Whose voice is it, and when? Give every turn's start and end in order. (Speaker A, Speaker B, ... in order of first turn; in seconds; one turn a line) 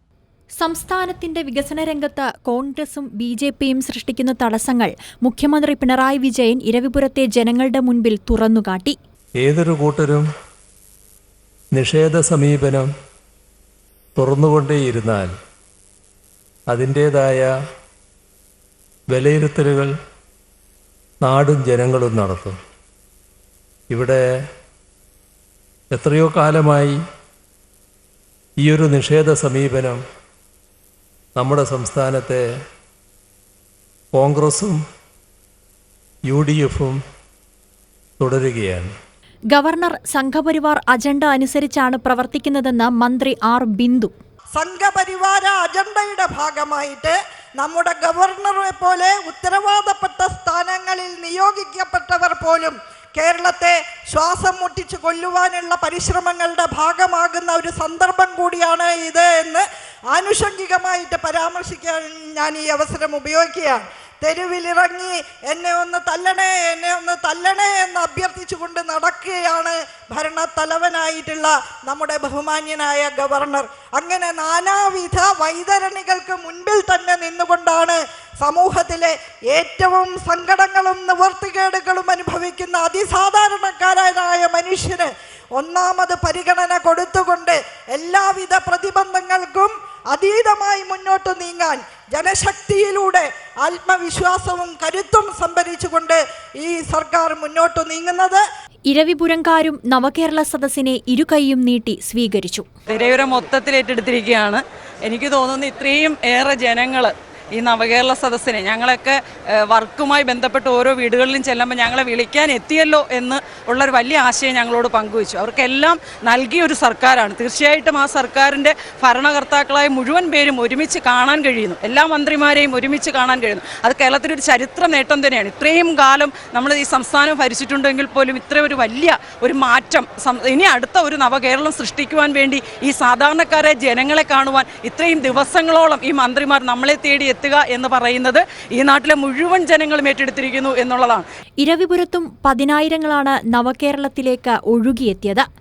Speaker A: 0.6-9.0
Speaker B: 9.4-10.3
Speaker B: 11.7-12.9
Speaker B: 14.2-15.3
Speaker B: 16.7-17.5
Speaker B: 19.1-19.9
Speaker B: 21.2-22.6
Speaker B: 23.9-24.2
Speaker B: 25.9-27.0
Speaker B: 28.6-30.0
Speaker B: 31.4-32.4
Speaker B: 34.1-34.8
Speaker B: 36.3-37.0
Speaker B: 38.2-38.9
Speaker A: 39.5-44.1
Speaker C: 44.5-98.4
Speaker A: 98.9-102.7
Speaker D: 102.9-141.2
Speaker A: 141.6-145.5